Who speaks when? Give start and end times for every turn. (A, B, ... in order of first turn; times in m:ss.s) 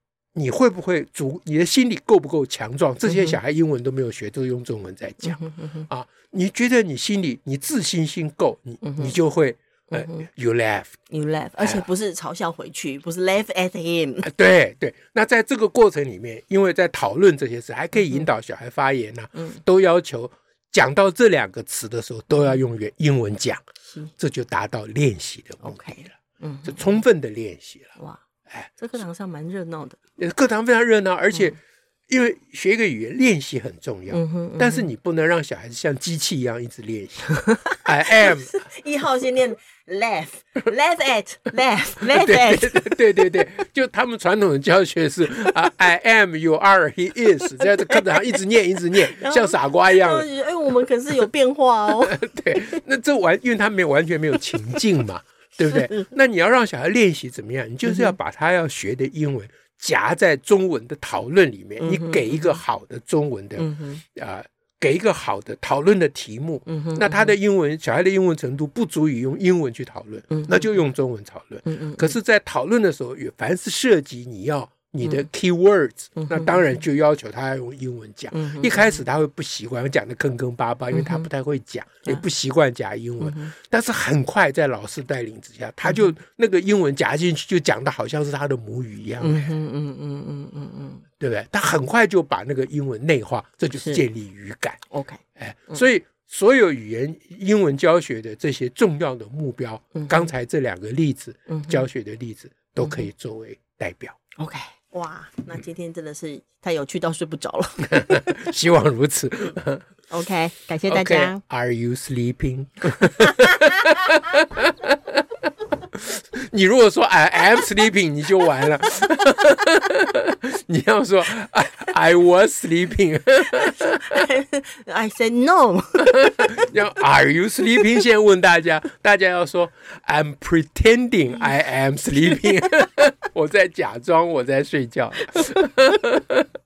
0:00.3-0:11.0 A
0:03.1-0:03.4 B
0:05.2-0:05.9 B
0:08.8-0:09.2 B
0:09.9-0:10.3 B
0:11.1-0:14.3 B
0:14.2-0:23.6 A
0:18.0-0:18.3 B
0:19.4-0:19.6 B
0:24.2-0:26.1 A
0:25.6-0:27.0 B
0:26.6-0:28.0 A
0:28.8-0:30.0 B
0:30.2-0:38.7 A
0:34.1-0:34.9 B
0:37.5-0:43.4 B
0:42.0-0:50.3 A
0:47.6-0:48.4 B
0:48.9-0:52.8 B
0:52.0-1:29.6 A
0:55.6-0:56.1 B
0:57.8-0:58.2 B
1:01.8-1:02.6 B
1:03.6-1:04.0 B
1:06.7-1:07.4 B
1:10.3-1:10.7 B
1:11.7-1:12.2 B
1:16.2-1:16.8 B
1:18.3-1:19.0 B
1:20.9-1:21.3 B
1:23.2-1:23.5 B
1:25.8-1:26.1 B
1:29.2-1:31.0 B
1:31.2-1:34.8 A
1:33.7-1:34.0 B
1:34.9-1:35.2 B
1:35.4-1:44.2 A
1:40.0-1:40.3 B
1:41.5-1:41.9 B
1:42.8-1:43.1 B
1:44.4-1:48.4 B
1:47.8-1:49.9 A
1:50.1-1:51.4 B
1:50.9-1:55.2 A
1:55.9-2:04.3 A
2:03.6-2:06.7 B
2:06.1-2:16.5 A
2:15.3-2:15.7 B